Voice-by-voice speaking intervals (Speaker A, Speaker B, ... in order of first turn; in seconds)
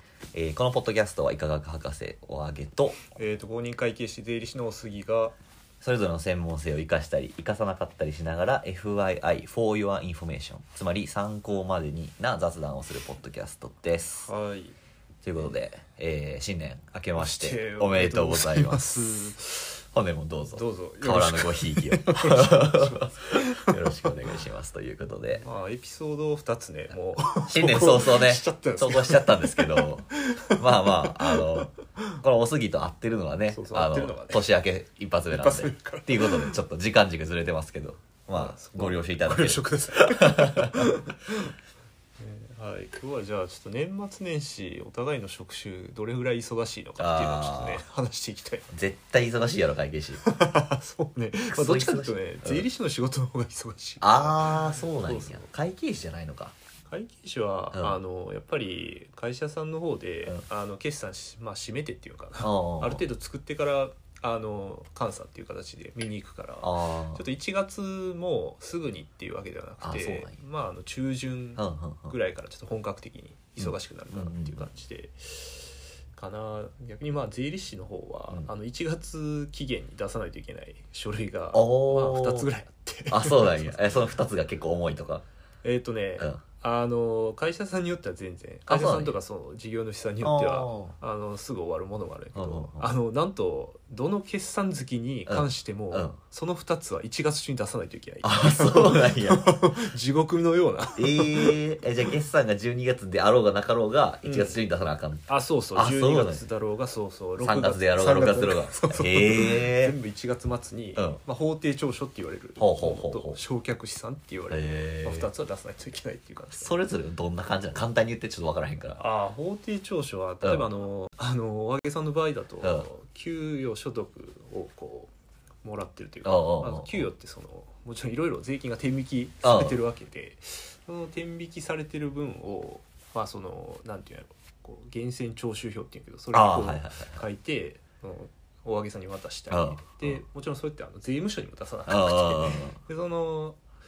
Speaker A: 0.3-3.0, 5.8-14.3, 15.2-19.0, 19.9-25.4, 27.5-40.8, 47.0-47.8, 48.7-50.2, 51.5-52.7, 54.0-56.5, 57.7-58.0, 62.4-63.0, 66.6-67.2, 69.8-70.3, 71.6-72.2, 73.6-74.7, 81.5-82.5, 83.1-85.2, 88.7-89.2, 90.2-91.0, 92.3-92.9, 95.3-96.2, 98.2-99.5, 101.0-106.4, 107.4-109.9, 112.6-113.4, 114.5-115.3, 116.5-119.0, 120.4-120.7, 126.2-127.1, 129.4-129.8, 136.3-137.2, 139.5-140.2, 141.9-142.8
Speaker B: 3.1-5.3, 14.2-14.8, 17.2-19.8, 20.5-24.1, 25.4-31.8, 33.5-34.5, 35.3-36.5, 38.3-41.5, 42.2-48.7, 50.2-55.5, 56.9-83.8, 85.6-101.6, 104.2-104.6, 105.3-116.7, 119.0-125.1, 125.6-143.6